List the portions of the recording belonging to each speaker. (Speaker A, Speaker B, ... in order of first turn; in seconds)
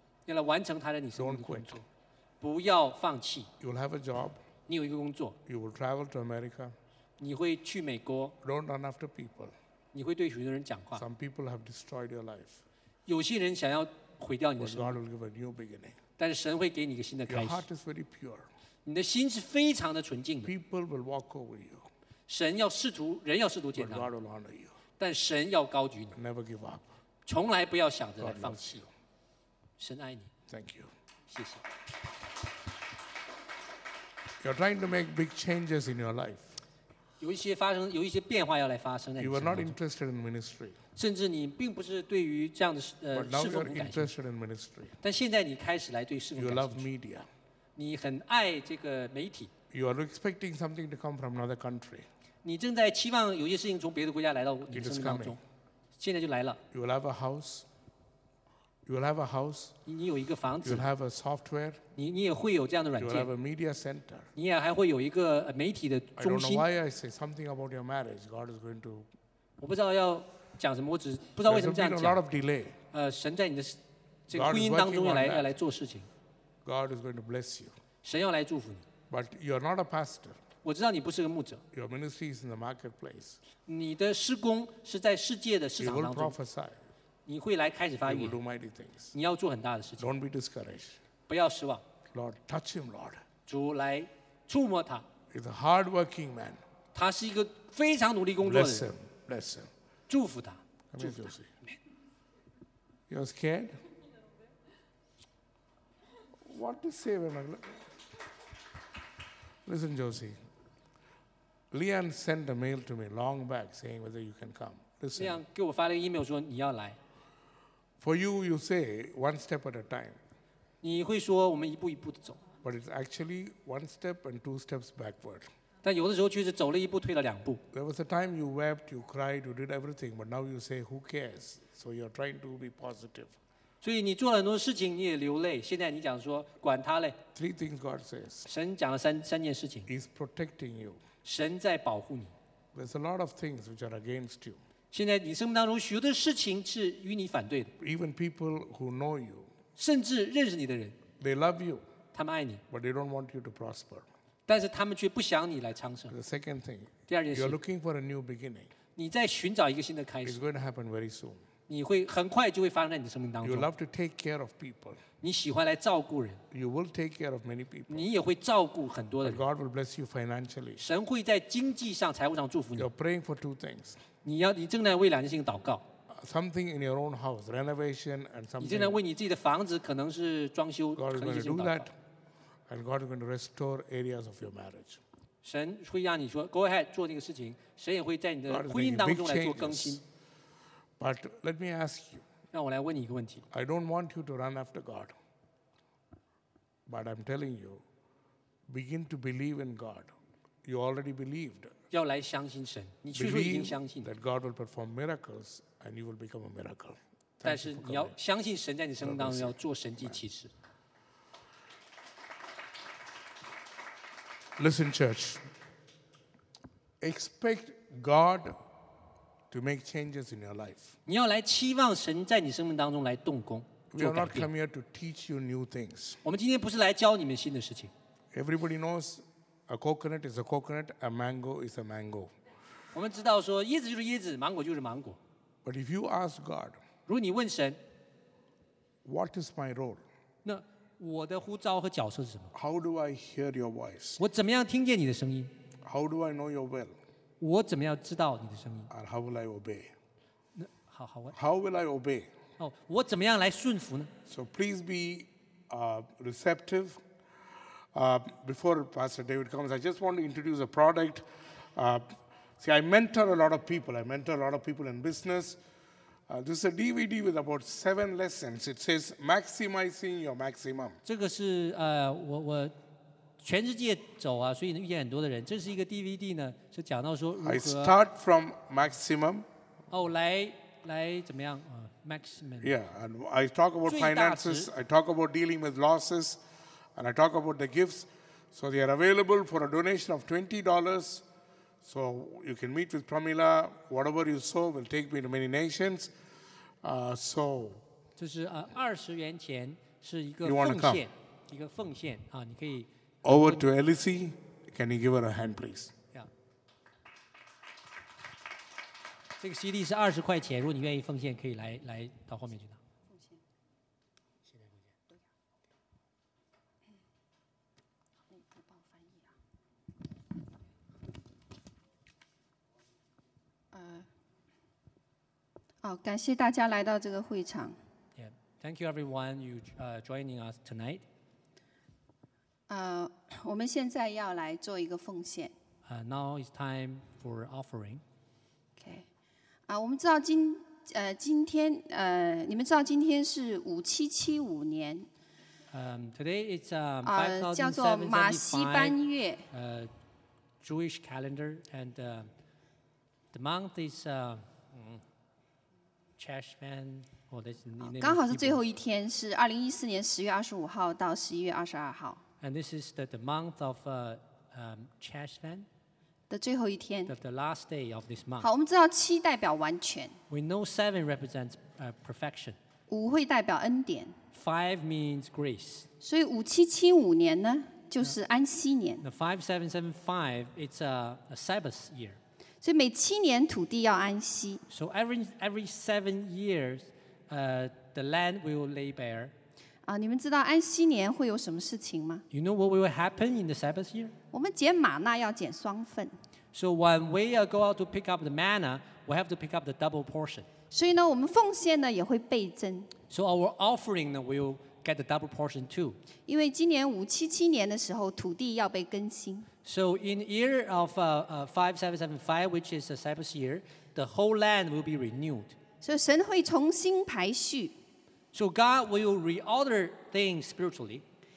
Speaker A: 0.3-1.9, 2.4-3.5, 4.7-5.4, 7.2-8.3, 9.9-11.1, 13.1-15.0, 16.2-17.6, 18.9-20.5, 22.3-24.1, 25.0-26.2, 27.3-28.8, 29.8-30.3, 31.3-31.6, 37.2-39.8, 41.0-44.1, 45.0-46.9, 47.8-49.5, 52.4-55.4, 56.0-56.6, 59.9-60.9, 62.0-63.3, 64.3-66.7, 69.6-72.2, 72.9-76.1, 78.0-78.9, 80.6-81.6, 83.7-86.3, 87.3-88.4, 89.1-90.1, 91.3-91.8, 93.5-95.1, 96.9-98.9, 100.1-101.2, 115.2-117.0, 120.8-122.4, 125.8-127.6, 133.8-137.2, 138.5-139.9, 141.2-142.3, 144.9-147.7, 149.8-151.0, 152.1-152.6, 154.5-156.1, 157.1-157.6, 159.0-160.4, 161.7-163.7, 165.2-166.4, 167.9-169.4, 170.8-172.9, 174.2-175.9, 178.6-181.9, 185.4-190.0, 192.5-193.4, 201.9-204.1, 207.4-210.5, 221.1-224.5, 226.2-227.9, 232.9-235.2, 237.1-237.8, 240.4-242.5, 244.2-245.5, 247.4-248.9, 250.6-251.4, 252.6-254.1, 271.1-272.8, 273.4-278.0, 279.9-282.8, 283.9-284.7, 298.2-303.6, 309.4-312.8, 328.2-331.0, 335.9-338.0, 345.7-349.0, 349.5-349.9, 350.6-352.3, 353.3-355.0, 356.2-358.6, 362.4-365.7, 367.1-368.5, 370.3-372.6, 374.3-375.9, 379.0-382.2, 384.7-389.3, 392.3-394.1, 396.5-400.5, 403.1-406.0, 409.6-415.6, 418.3-421.1
Speaker B: 1.1-1.8, 3.6-4.4, 5.5-6.8, 8.4-9.6, 10.9-12.6, 14.6-16.0, 17.3-18.5, 20.4-21.9, 23.8-24.8, 26.1-26.9, 28.2-28.9, 30.5-30.9, 34.4-36.6, 39.2-40.8, 43.1-45.0, 46.4-47.3, 49.7-52.1, 54.7-55.4, 56.7-57.7, 58.9-59.8, 60.6-61.8, 63.0-64.3, 66.2-69.1, 71.5-72.8, 74.3-75.5, 76.6-77.8, 79.1-80.4, 81.7-83.4, 85.8-86.9, 88.0-89.2, 90.0-91.0, 92.1-93.2, 95.3-96.6, 98.4-99.7, 100.9-101.5, 103.1-103.8, 106.4-107.9, 109.7-110.4, 111.7-115.4, 118.0-120.2, 122.6-125.5, 127.7-133.4, 137.3-138.5, 139.9-141.0, 142.7-144.6, 147.8-149.5, 151.2-151.8, 152.7-154.1, 156.1-158.7, 160.2-161.4, 163.4-165.0, 166.5-168.1, 169.2-170.8, 172.8-174.0, 176.1-179.0, 181.0-181.9, 182.7-185.0, 188.5-190.0, 191.0-192.2, 193.5-195.2, 196.9-197.8, 198.7-200.1, 200.6-201.8, 203.1-208.2, 209.0-210.2, 214.6-215.4, 217.0-218.6, 219.5-221.0, 223.9-226.2, 228.3-232.3, 235.6-236.8, 239.0-240.0, 242.5-244.2, 245.8-247.0, 248.9-249.9, 251.3-252.3, 254.3-257.0, 257.9-265.6, 266.3-271.0, 277.4-279.5, 282.6-286.4, 287.0-291.3, 291.8-296.1, 296.8-297.8, 300.4-301.1, 303.2-305.9
Speaker C: 313.1-313.4, 318.3-319.3, 323.7-324.1, 325.8-327.8, 332.7-335.5, 338.8-339.1, 339.7-345.1, 347.0-349.5, 357.8-362.2, 366.3-367.1, 368.4-370.2, 372.9-374.1, 376.0-379.0, 382.6-384.6, 389.9-392.2, 394.3-396.1, 400.7-402.9, 406.3-409.5, 415.8-417.8